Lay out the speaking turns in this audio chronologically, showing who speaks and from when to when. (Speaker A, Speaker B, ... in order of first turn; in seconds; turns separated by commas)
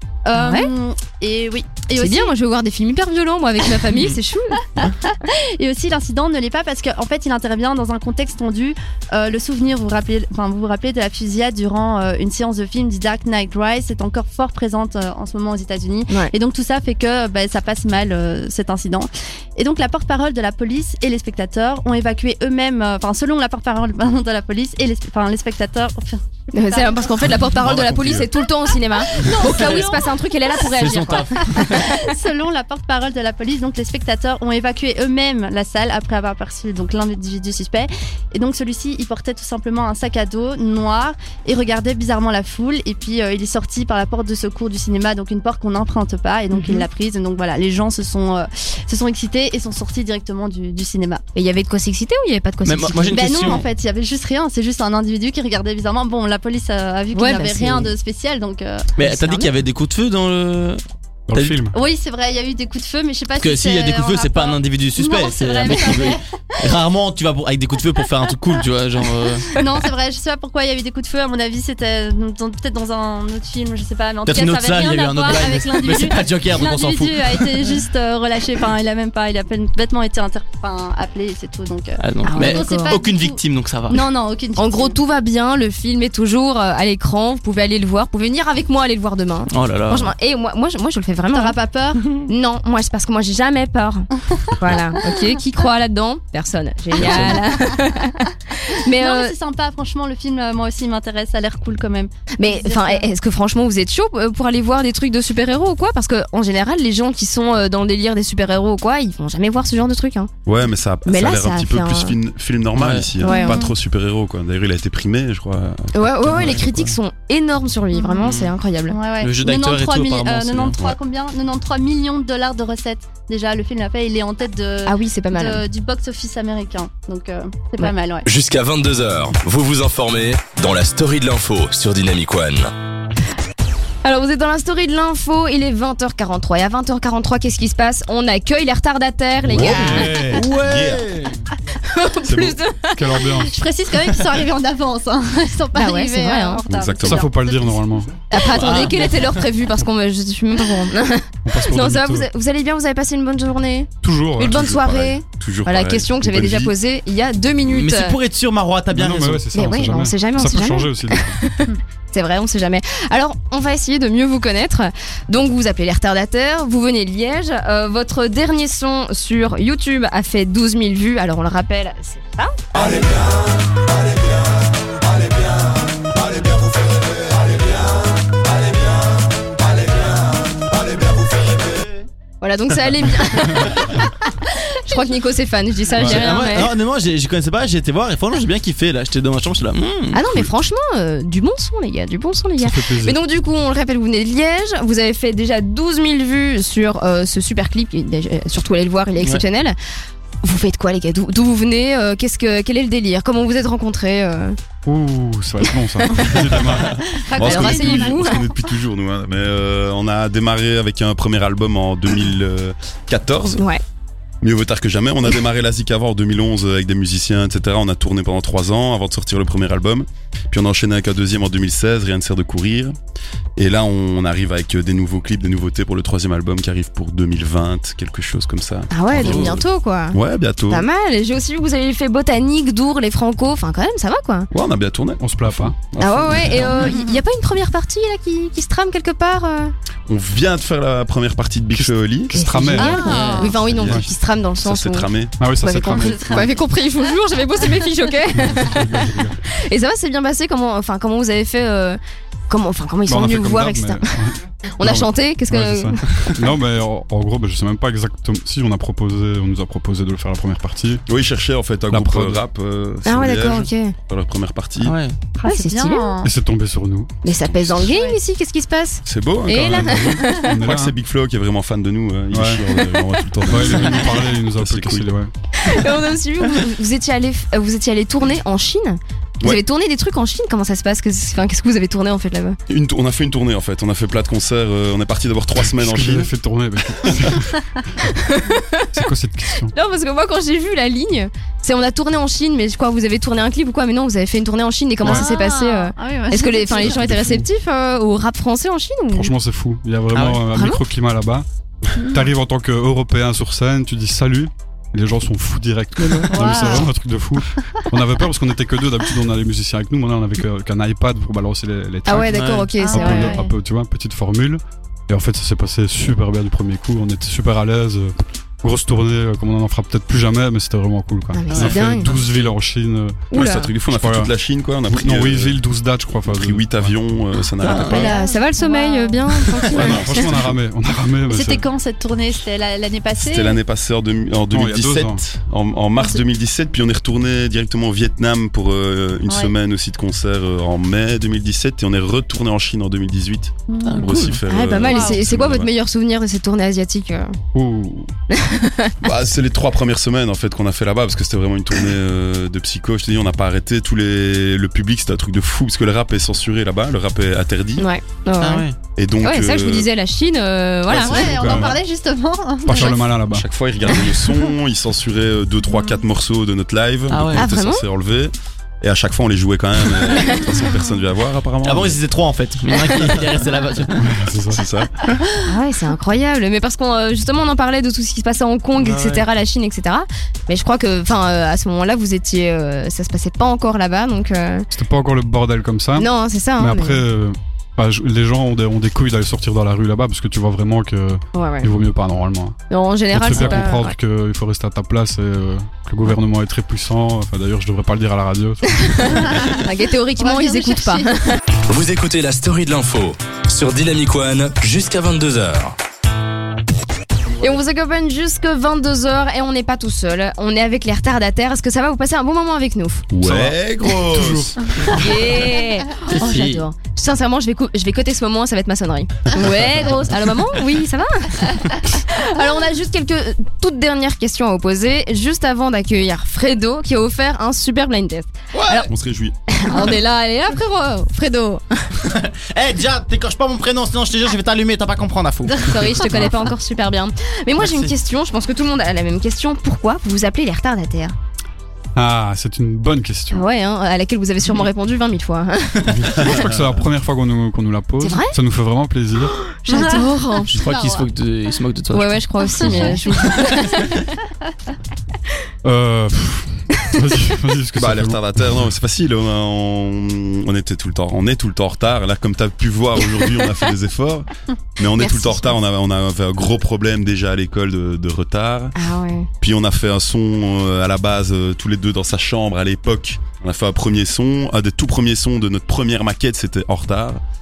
Speaker A: 0.2-2.3, Speaker B: 0.3-0.7, Speaker B: 2.0-4.6, Speaker A: 4.7-27.4, Speaker B: 16.1-16.3, Speaker B: 26.5-31.9, Speaker C: 27.4-28.3, Speaker A: 29.1-30.1, Speaker D: 29.4-29.8, Speaker D: 30.6-31.9, Speaker A: 31.4-51.2, Speaker B: 46.5-46.8, Speaker B: 51.4-53.6, Speaker D: 52.6-53.6, Speaker A: 53.1-58.9, Speaker B: 57.1-57.9, Speaker D: 59.0-60.8, Speaker B: 59.0-59.5, Speaker E: 61.3-61.8, Speaker D: 61.3-61.6, Speaker A: 61.7-66.2, Speaker D: 63.4-69.6, Speaker A: 69.5-85.0, Speaker D: 74.3-77.6, Speaker D: 82.0-84.0, Speaker B: 82.2-83.0, Speaker B: 83.9-91.6, Speaker D: 89.5-90.1, Speaker A: 91.3-92.2, Speaker B: 92.2-99.3, Speaker D: 97.0-97.3, Speaker A: 97.0-97.4, Speaker A: 98.9-103.1, Speaker B: 102.4-110.3, Speaker C: 110.5-117.0, Speaker B: 111.1-112.2, Speaker D: 112.8-113.1, Speaker B: 113.2-113.6, Speaker A: 113.2-113.7, Speaker B: 115.9-119.0, Speaker A: 117.9-118.3, Speaker D: 118.2-118.5, Speaker A: 118.9-128.3, Speaker D: 119.2-120.8, Speaker B: 124.8-125.6, Speaker F: 128.3-132.7, Speaker B: 134.0-140.3, Speaker C: 139.5-141.1, Speaker E: 139.5-140.1, Speaker D: 139.6-141.4, Speaker B: 141.8-143.3, Speaker C: 142.2-142.6, Speaker E: 142.9-143.6, Speaker A: 143.5-147.8, Speaker B: 145.8-146.6, Speaker C: 146.7-147.3, Speaker E: 147.0-148.1, Speaker B: 148.3-158.2, Speaker D: 148.5-149.4, Speaker E: 151.4-152.3, Speaker E: 154.0-154.6, Speaker C: 154.4-156.7, Speaker D: 157.7-159.4, Speaker E: 158.9-161.4, Speaker B: 159.5-172.6, Speaker D: 181.3-182.0, Speaker B: 182.4-184.1, Speaker B: 184.8-186.7, Speaker E: 186.0-186.3, Speaker D: 186.0-190.2, Speaker B: 190.1-199.8, Speaker E: 192.6-193.2, Speaker B: 200.4-204.6, Speaker E: 204.8-207.0, Speaker B: 206.0-206.3, Speaker C: 206.4-213.6, Speaker A: 207.1-208.2, Speaker B: 207.4-208.5, Speaker B: 213.6-213.8, Speaker C: 214.4-222.9, Speaker C: 223.6-230.9, Speaker B: 228.9-230.2, Speaker D: 229.2-229.6, Speaker B: 230.7-234.5, Speaker C: 234.5-236.9, Speaker E: 235.2-235.8, Speaker B: 236.0-239.7, Speaker A: 236.8-237.2, Speaker C: 240.1-244.1, Speaker E: 241.8-244.1, Speaker B: 242.3-254.2, Speaker A: 242.8-243.6, Speaker C: 244.6-245.4, Speaker E: 245.4-246.5, Speaker A: 245.9-246.5, Speaker E: 248.4-249.4, Speaker E: 253.1-261.0, Speaker B: 254.8-256.0, Speaker C: 261.1-265.0, Speaker E: 261.9-262.4, Speaker B: 263.1-263.9, Speaker D: 264.8-265.2, Speaker A: 265.4-266.3, Speaker B: 265.4-266.1, Speaker E: 266.2-267.2, Speaker B: 267.2-270.5, Speaker C: 267.3-267.8, Speaker A: 267.8-268.2, Speaker C: 269.1-275.1, Speaker E: 269.7-270.9, Speaker E: 272.3-272.6, Speaker E: 273.5-275.3, Speaker B: 275.6-282.6, Speaker C: 282.7-286.3, Speaker E: 285.6-288.1, Speaker B: 288.1-289.1, Speaker E: 288.9-289.7, Speaker B: 289.6-299.3, Speaker A: 295.0-297.3, Speaker E: 296.8-297.4, Speaker E: 299.1-301.4, Speaker D: 300.1-300.4, Speaker B: 300.5-300.8, Speaker E: 302.0-323.3, Speaker B: 306.0-306.3, Speaker A: 306.3-306.9, Speaker B: 312.1-313.4, Speaker D: 312.3-312.7, Speaker A: 312.8-313.5, Speaker B: 321.3-322.1, Speaker D: 321.5-322.5, Speaker B: 323.3-323.7, Speaker C: 323.3-325.6, Speaker E: 323.9-324.3, Speaker E: 324.9-327.0, Speaker C: 326.3-328.1, Speaker D: 327.6-328.1, Speaker B: 327.7-330.3, Speaker A: 327.7-329.7, Speaker C: 329.7-330.5, Speaker E: 329.7-331.6, Speaker A: 331.3-333.6, Speaker C: 333.2-345.7, Speaker E: 334.5-335.2, Speaker A: 343.7-344.1, Speaker D: 343.9-344.4, Speaker B: 344.5-347.4, Speaker A: 344.8-345.2, Speaker E: 347.5-348.1, Speaker B: 348.3-349.0, Speaker C: 349.0-357.9, Speaker B: 357.8-358.7, Speaker D: 358.4-358.8, Speaker C: 359.0-359.9, Speaker B: 359.2-361.7, Speaker C: 360.9-361.5, Speaker A: 361.0-363.0, Speaker E: 361.1-361.8, Speaker E: 362.7-363.5, Speaker C: 362.8-372.0, Speaker A: 363.9-364.4, Speaker A: 365.7-366.0, Speaker D: 367.1-367.5, Speaker B: 367.4-367.9, Speaker B: 370.1-370.4, Speaker D: 371.6-374.1, Speaker E: 374.0-374.6, Speaker C: 374.5-375.2, Speaker B: 375.4-384.7, Speaker D: 378.8-379.2, Speaker E: 384.7-392.6, Speaker B: 386.0-387.0, Speaker B: 391.3-391.7, Speaker B: 392.7-394.0, Speaker E: 393.1-399.4, Speaker B: 398.7-401.4, Speaker A: 399.3-399.6, Speaker A: 400.2-401.1, Speaker F: 401.7-405.8, Speaker B: 407.4-413.1, Speaker C: 413.1-414.7, Speaker E: 413.1-415.1, Speaker B: 414.9-428.9, Speaker D: 416.1-416.6, Speaker D: 428.5-428.9, Speaker C: 428.9-429.4, Speaker B: 429.5-431.9, Speaker D: 432.0-436.2, Speaker B: 435.6-441.1, Speaker D: 437.6-437.9, Speaker E: 442.0-443.5, Speaker B: 443.3-446.0, Speaker E: 445.9-449.4, Speaker C: 446.2-446.8, Speaker B: 448.0-448.4, Speaker B: 449.3-450.6, Speaker A: 449.7-451.1, Speaker D: 450.5-453.9, Speaker B: 451.9-453.9, Speaker A: 452.5-453.9, Speaker E: 455.6-458.6, Speaker C: 457.8-468.8, Speaker B: 465.0-465.6, Speaker B: 468.8-469.3, Speaker C: 469.4-477.2